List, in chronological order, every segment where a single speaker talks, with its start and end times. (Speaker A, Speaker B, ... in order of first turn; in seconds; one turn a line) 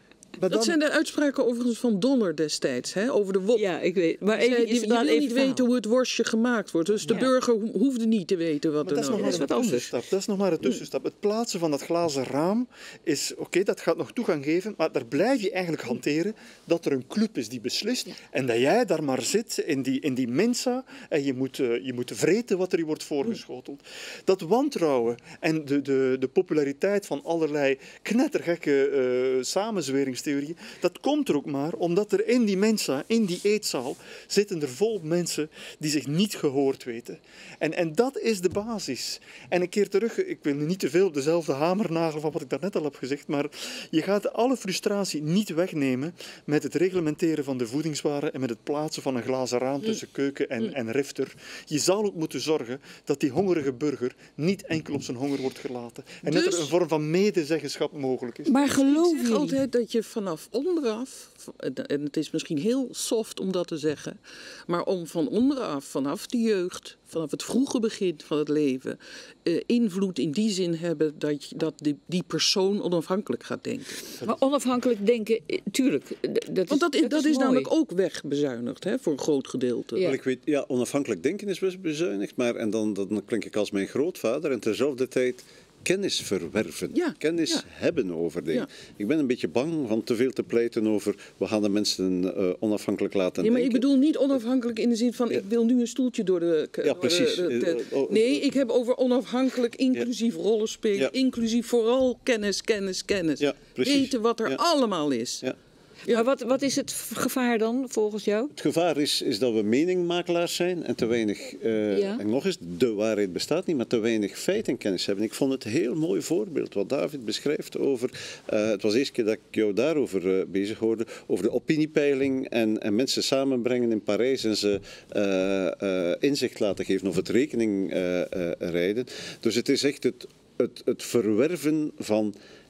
Speaker A: 0.4-0.8
Speaker B: 0.5-3.6
Speaker C: 3.5-5.6
Speaker B: 4.3-9.5
Speaker A: 8.8-58.6
Speaker C: 9.1-9.9
Speaker B: 56.2-56.7
Speaker C: 58.5-59.6
Speaker B: 58.7-74.2
Speaker C: 74.2-77.7
Speaker B: 76.7-80.1
Speaker D: 80.0-93.8
Speaker B: 86.9-87.6
Speaker B: 93.4-105.5
Speaker D: 96.8-98.4
Speaker D: 103.4-104.6
Speaker C: 106.1-108.5
Speaker D: 108.5-132.3
Speaker C: 111.9-112.2